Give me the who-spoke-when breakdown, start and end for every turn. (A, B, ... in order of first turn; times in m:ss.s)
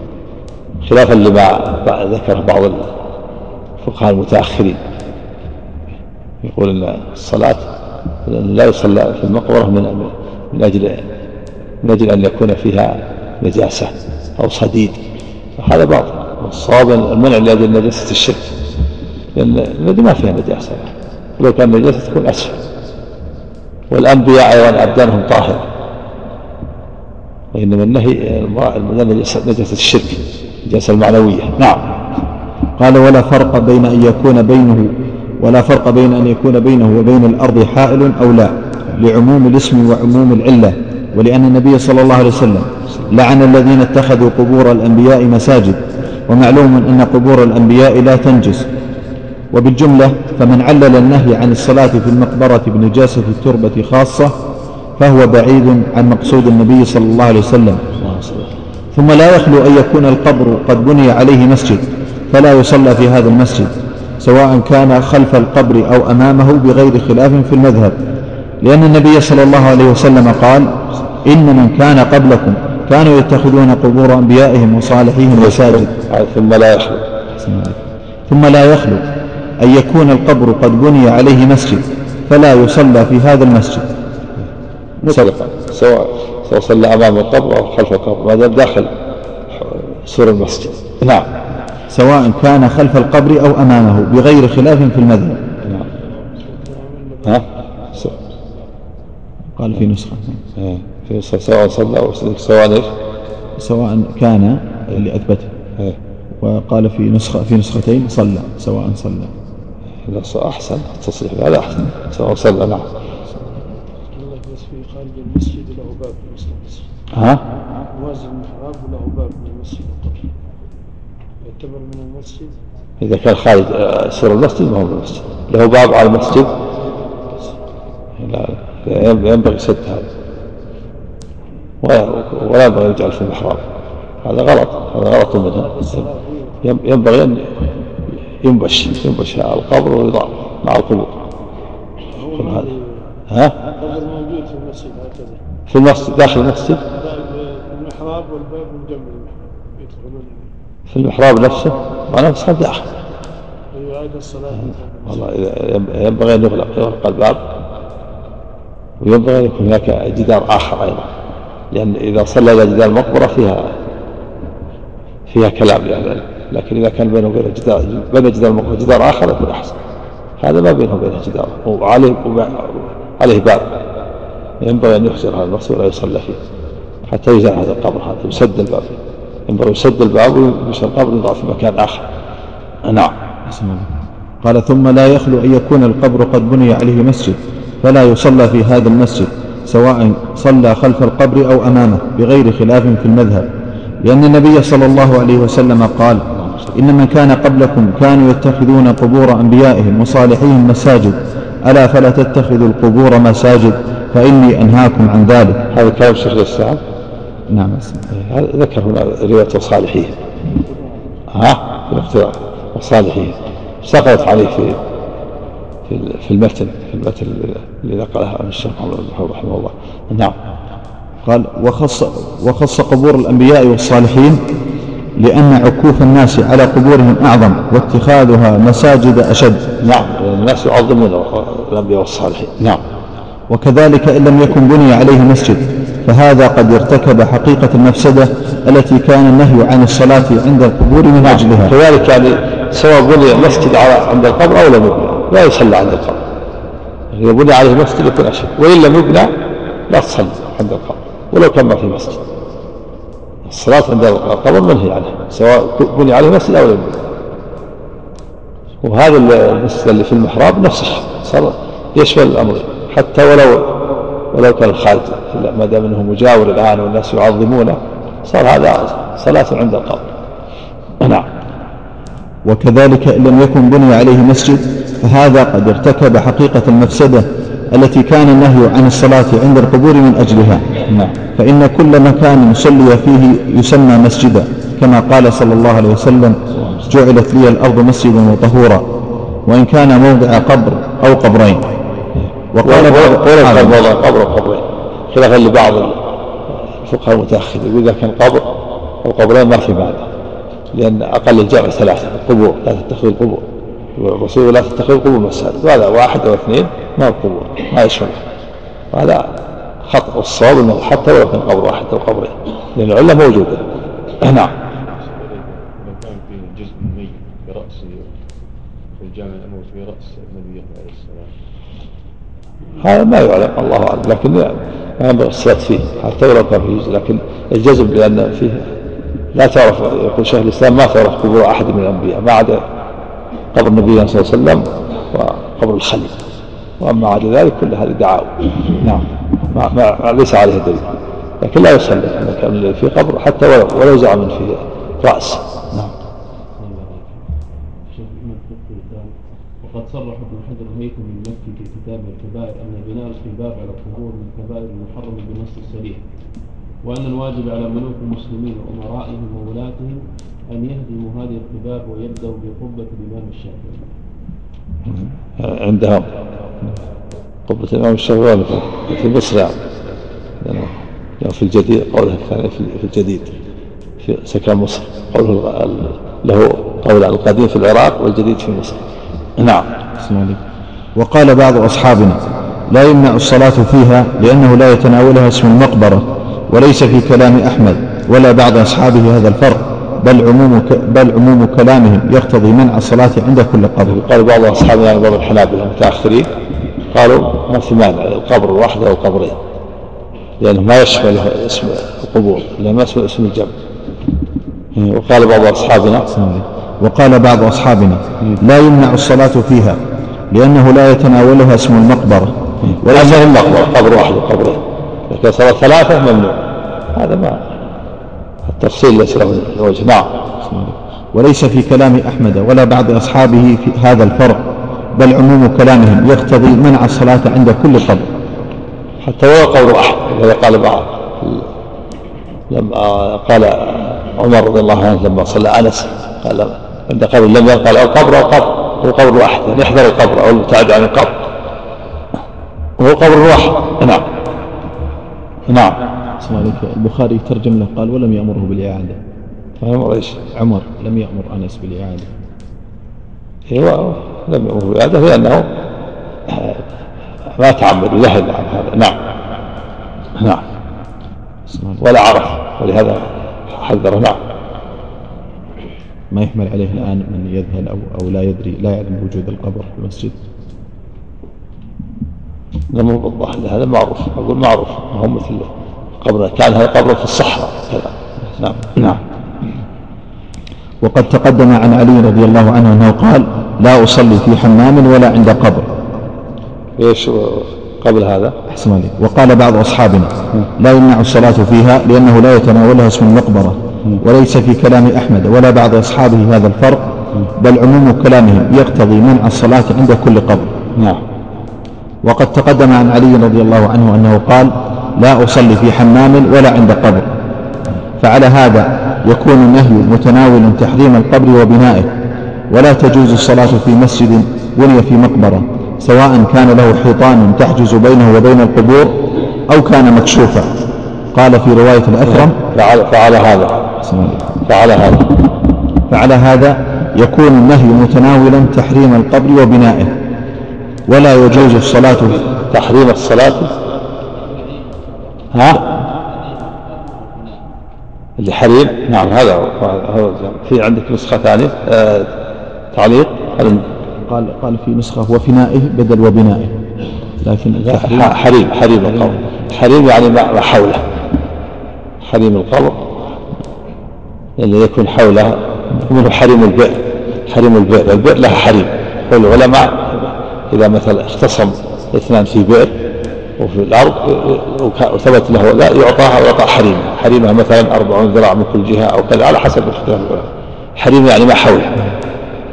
0:00.8-0:02.8 A
0:03.8-0:04.8 A
0:06.4-0:07.6 A
0:08.2-0:11.0 A
0:11.8-0:15.0 A
0:15.6-0:18.5 A
0:19.3-0:22.6 A
0:23.9-0:25.7 A
0:27.5-0:31.8 A
0:32.8-0:48.7 B
0:49.5-0:54.4 B
0:55.0-0:58.1 B
0:58.9-1:08.0 B
1:08.6-1:15.9 B
1:15.3-1:17.0 A
1:17.4-1:19.0 B
1:19.6-1:23.9 B
1:25.0-1:28.9 A
1:29.5-1:31.3 A
1:31.9-1:35.4 B
1:36.4-1:38.3 C
1:39.6-1:40.4 B
1:40.6-1:42.9 A
1:43.6-1:45.5 B
1:46.4-1:49.3 B
1:50.1-1:52.9 A
1:54.1-1:56.8 C
1:57.1-1:57.4 A
1:57.9-2:00.2 C
2:01.4-2:02.6 C
2:03.0-2:06.5 A
2:07.2-2:07.6 C
2:08.2-2:10.0 A
2:11.8-2:13.6 A
2:14.2-2:15.7 A
2:15.4-2:16.6 C
2:16.6-2:17.5 A
2:18.4-2:21.2 A
2:22.1-2:23.1 C
2:22.4-2:22.7 A
2:23.3-2:23.5 A
2:23.7-2:25.4 C
2:25.7-2:26.8 A
2:26.9-2:30.5 C
2:30.9-2:32.8 A
2:33.7-2:35.4 C
2:35.0-2:37.4 A
2:39.0-2:41.1 A
2:41.7-2:43.7 A
2:45.3-2:49.7 A
2:50.4-2:53.6 A
2:54.6-2:56.4 A
2:57.1-2:58.9 A
2:59.5-3:02.0 A
3:02.8-3:03.1 A
3:03.5-3:13.5 B
3:14.0-3:25.6 B
3:25.7-3:26.8 A
3:27.5-3:28.0 B
3:28.1-3:30.1 A
3:31.3-3:34.8 A
3:35.9-3:40.4 A
3:41.2-3:44.4 B
3:45.2-3:49.6 B
3:49.8-3:52.8 A
3:53.5-4:01.7 B
4:01.2-4:06.2 A
4:07.1-4:09.3 A
4:09.9-4:12.2 A
4:13.5-4:17.0 A
4:18.8-4:23.7 A
4:24.3-4:30.0 A
4:31.0-4:31.3 A
4:32.4-4:40.6 B
4:40.9-4:41.1 A
4:41.4-4:48.9 B
4:49.4-4:51.7 B
4:52.5-4:53.8 B
4:52.6-4:56.0 A
4:56.5-4:58.4 A
4:59.0-5:00.1 A
5:00.7-5:03.4 A
5:04.0-5:08.2 A
5:08.9-5:09.3 A
5:09.9-5:13.6 A
5:14.2-5:14.5 A
5:14.8-5:18.2 D
5:19.0-5:21.3 D
5:22.8-5:28.6 A
5:29.3-5:32.6 A
5:33.5-5:36.1 A
5:36.8-5:40.8 A
5:41.4-5:45.9 A
5:46.5-5:47.3 E
5:47.9-5:56.0 E
5:56.8-6:03.9 E
6:04.9-6:06.1 A
6:07.5-6:09.5 A
6:10.4-6:13.3 A
6:14.0-6:18.8 A
6:19.4-6:19.7 A
6:20.0-6:20.4 B
6:21.0-6:34.0 B
6:33.9-6:36.3 A
6:36.9-6:39.4 A
6:40.4-6:43.5 A
6:44.7-6:46.1 A
6:46.1-6:53.3 B
6:52.6-6:56.4 A
6:56.9-6:57.4 A
6:58.5-7:00.1 A
7:00.4-7:08.1 B
7:09.0-7:11.4 A
7:12.5-7:21.2 A
7:22.8-7:24.0 A
7:25.5-7:25.8 A
7:26.2-7:29.0 B
7:29.6-7:30.2 A
7:30.4-7:32.1 B
7:33.5-7:35.4 A
7:36.3-7:36.6 A
7:37.4-7:39.0 A
7:40.2-7:40.4 A
7:41.5-7:41.8 B
7:41.8-7:44.2 A
7:46.1-7:50.2 B
7:52.7-7:55.5 A
7:56.0-7:59.0 A
7:58.2-7:58.8 B
8:00.8-8:05.7 B
8:06.8-8:08.3 A
8:08.5-8:20.5 B
8:22.0-8:27.1 B
8:28.0-8:31.9 B
8:32.5-8:40.5 B
8:41.1-8:42.4 B
8:42.0-8:43.6 A
8:43.8-8:44.3 B
8:44.4-8:45.2 A
8:45.9-8:49.9 B
8:50.9-8:52.2 B
8:52.5-8:53.5 A
8:54.1-8:55.3 E
8:55.3-8:55.6 A
8:55.8-8:57.6 E
8:58.2-9:02.1 A
9:02.7-9:03.6 A
9:04.1-9:06.6 B
9:07.2-9:08.2 B
9:07.6-9:10.8 A
9:08.9-9:09.2 B
9:12.0-9:12.9 A
9:14.4-9:22.7 A
9:23.4-9:30.3 A
9:30.8-9:31.8 A